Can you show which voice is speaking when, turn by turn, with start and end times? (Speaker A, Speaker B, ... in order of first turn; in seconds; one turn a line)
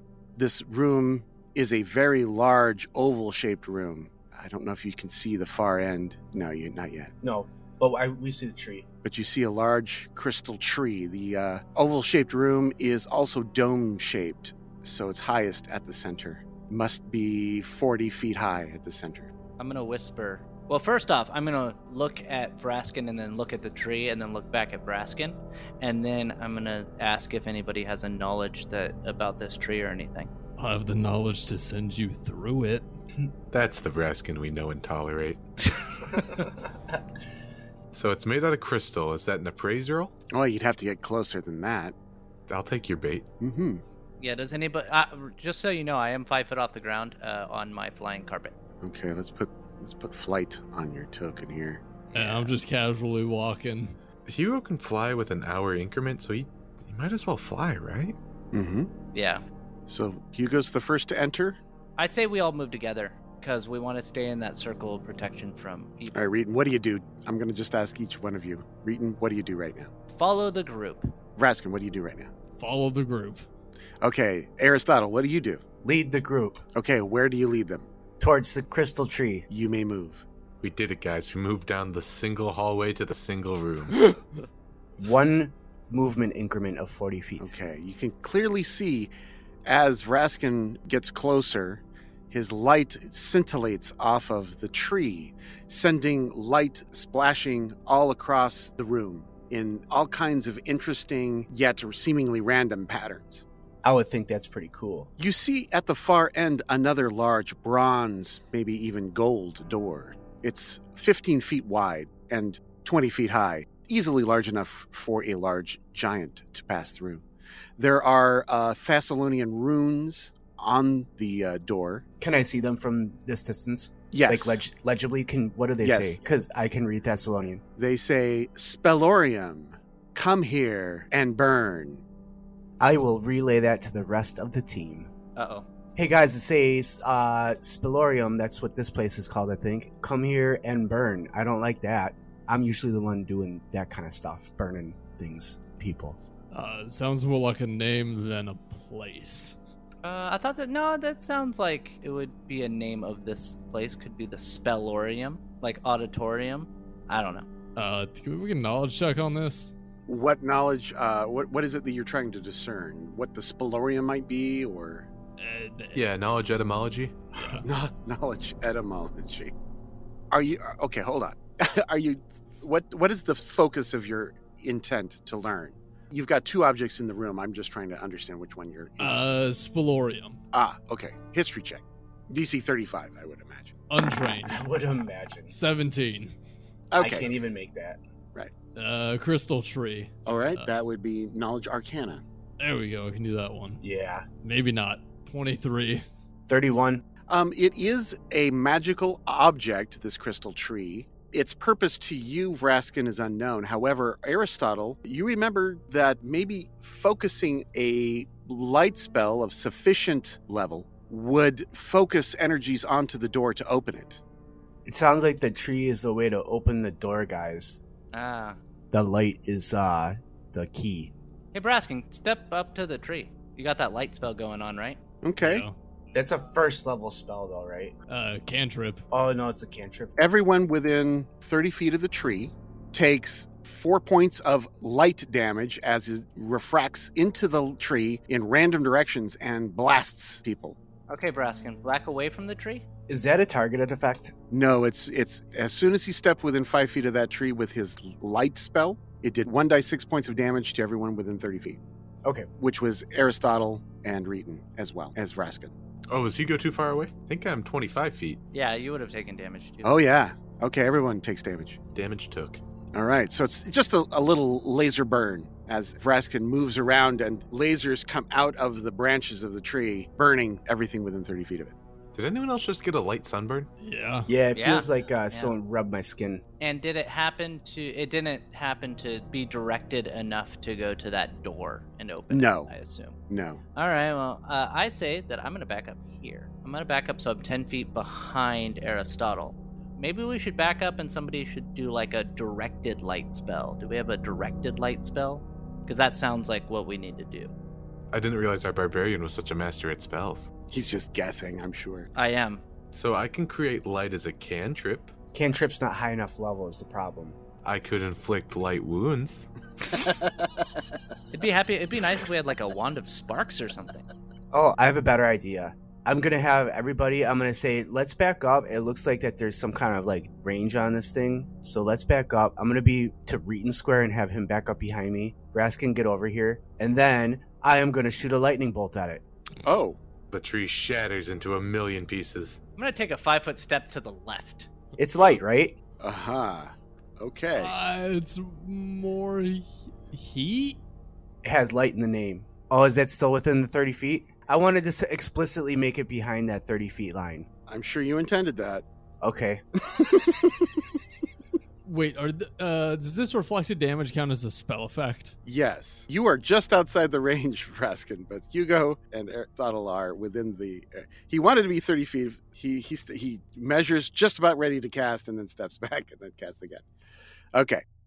Speaker A: 0.4-7.1
Speaker B: 7.2-8.9
Speaker A: 9.0-19.3
Speaker C: 19.6-30.3
Speaker D: 30.6-32.9
Speaker E: 33.5-35.4
Speaker E: 37.9-40.1
Speaker A: 40.3-41.9
Speaker E: 42.5-43.2
Speaker A: 43.4-43.8
Speaker C: 44.2-48.5
Speaker A: 48.8-51.8
Speaker C: 52.1-52.6
Speaker D: 52.1-54.0
Speaker E: 54.3-58.1
Speaker A: 58.5-58.9
Speaker C: 59.1-59.4
Speaker A: 59.9-61.6
Speaker C: 62.0-66.3
Speaker A: 66.1-69.9
Speaker C: 70.1-71.1
Speaker A: 71.4-72.3
Speaker D: 72.6-73.5
Speaker A: 74.0-75.6
Speaker B: 75.8-76.6
Speaker A: 76.7-77.9
Speaker B: 78.2-79.5
Speaker A: 79.5-80.2
Speaker E: 80.6-84.1
Speaker B: 85.0-87.5
Speaker A: 87.4-89.1
Speaker A: 89.6-103.4
Speaker B: 103.8-105.1
Speaker A: 105.2-117.2
Speaker A: 117.8-122.0
Speaker B: 122.2-127.6
Speaker A: 124.1-124.6
Speaker A: 125.8-126.2
Speaker A: 127.8-132.0
Speaker B: 132.8-135.1
Speaker C: 135.4-135.6
Speaker B: 135.9-146.2
Speaker D: 146.5-149.6
Speaker C: 150.0-157.5
Speaker D: 157.8-159.7
Speaker A: 160.1-165.1
Speaker D: 165.4-166.1
Speaker E: 165.9-167.1
Speaker D: 167.3-167.7
Speaker A: 167.6-169.5
Speaker A: 170.3-179.4
Speaker D: 179.0-180.4
Speaker A: 180.5-183.7
Speaker D: 183.9-184.6
Speaker B: 184.4-185.5
Speaker D: 185.5-186.3
Speaker A: 186.9-187.3
Speaker B: 187.0-188.0
Speaker D: 188.7-190.7
Speaker A: 190.2-192.2
Speaker D: 192.6-193.8
Speaker B: 193.8-194.3
Speaker D: 194.4-196.0
Speaker B: 196.5-197.0
Speaker A: 197.3-214.2
Speaker B: 214.8-217.8
Speaker C: 218.1-218.6
Speaker B: 218.9-221.1
Speaker C: 221.5-225.0
Speaker A: 225.2-225.7
Speaker D: 225.4-225.7
Speaker B: 226.1-227.9
Speaker D: 228.1-229.1
Speaker B: 229.1-230.1
Speaker A: 230.2-240.8
Speaker C: 241.1-242.8
Speaker B: 243.1-244.3
Speaker A: 244.5-251.8
Speaker A: 252.6-255.7
Speaker E: 256.1-258.4
Speaker C: 258.5-260.0
Speaker A: 259.8-261.8
Speaker E: 261.9-262.6
Speaker A: 262.9-271.7
Speaker E: 272.1-273.7
Speaker D: 273.8-274.3
Speaker B: 274.3-276.4
Speaker C: 274.5-275.6
Speaker C: 276.6-283.1
Speaker A: 282.3-282.7
Speaker A: 283.3-283.6
Speaker C: 283.7-297.5
Speaker E: 298.1-300.5
Speaker A: 300.7-302.1
Speaker C: 302.1-302.6
Speaker E: 302.9-305.1
Speaker B: 305.3-307.4
Speaker E: 307.6-309.5
Speaker C: 311.3-314.0
Speaker B: 314.5-329.2
Speaker A: 329.6-330.0
Speaker E: 330.3-332.6
Speaker C: 332.8-334.7
Speaker B: 335.0-335.8
Speaker A: 336.0-337.7
Speaker D: 337.5-340.8
Speaker B: 341.4-347.5
Speaker A: 347.7-348.9
Speaker B: 349.2-350.2
Speaker D: 351.8-355.4
Speaker A: 355.4-366.8
Speaker A: 367.5-367.8